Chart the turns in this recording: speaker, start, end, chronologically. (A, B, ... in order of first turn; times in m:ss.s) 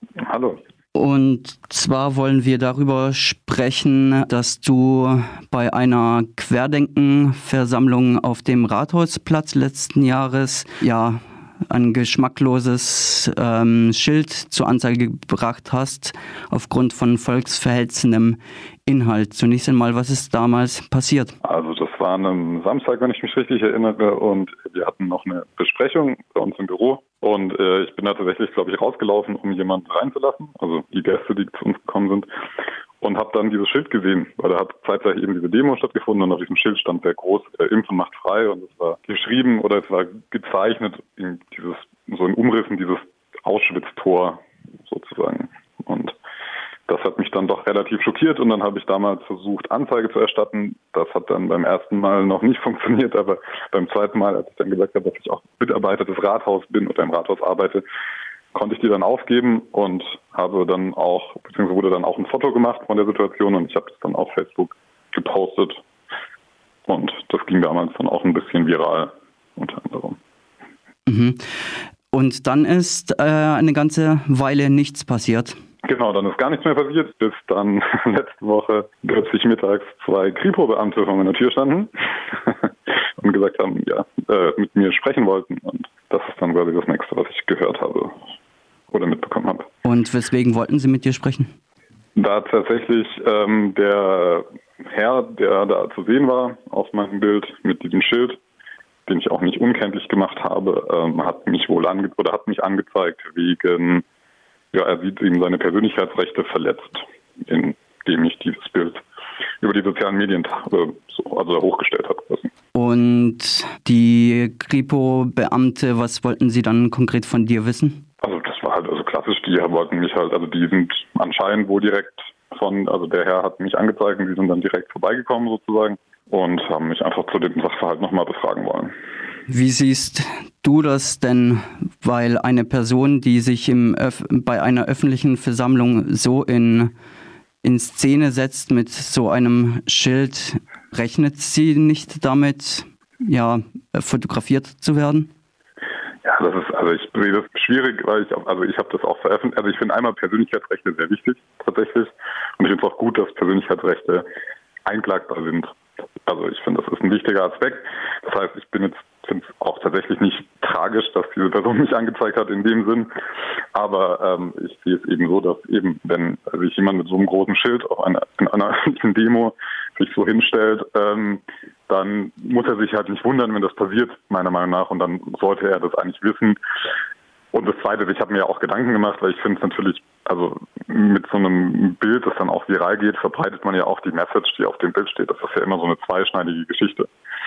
0:00.2-0:00.6 A
0:00.9-0:21.3 B
0:21.4-0:32.3 A
0:33.0-0:46.2 A
0:46.9-0:57.8 A
0:58.5-1:05.8 A
1:06.9-1:10.2 A
1:11.1-1:11.4 B
1:12.1-1:15.6 B
1:15.8-1:28.2 A
1:28.9-1:29.7 A
1:29.8-1:31.5 B
1:32.2-1:38.4 A
1:39.0-1:44.0 A
1:44.7-1:49.0 A
1:49.6-1:52.5 A
1:52.7-1:58.0 B
1:58.2-2:08.9 A
2:09.5-2:16.9 B
2:17.6-2:25.3 B
2:26.2-2:34.2 A
2:34.8-2:35.7 A
2:36.2-2:43.1 A
2:43.7-2:56.6 A
2:57.5-3:07.1 A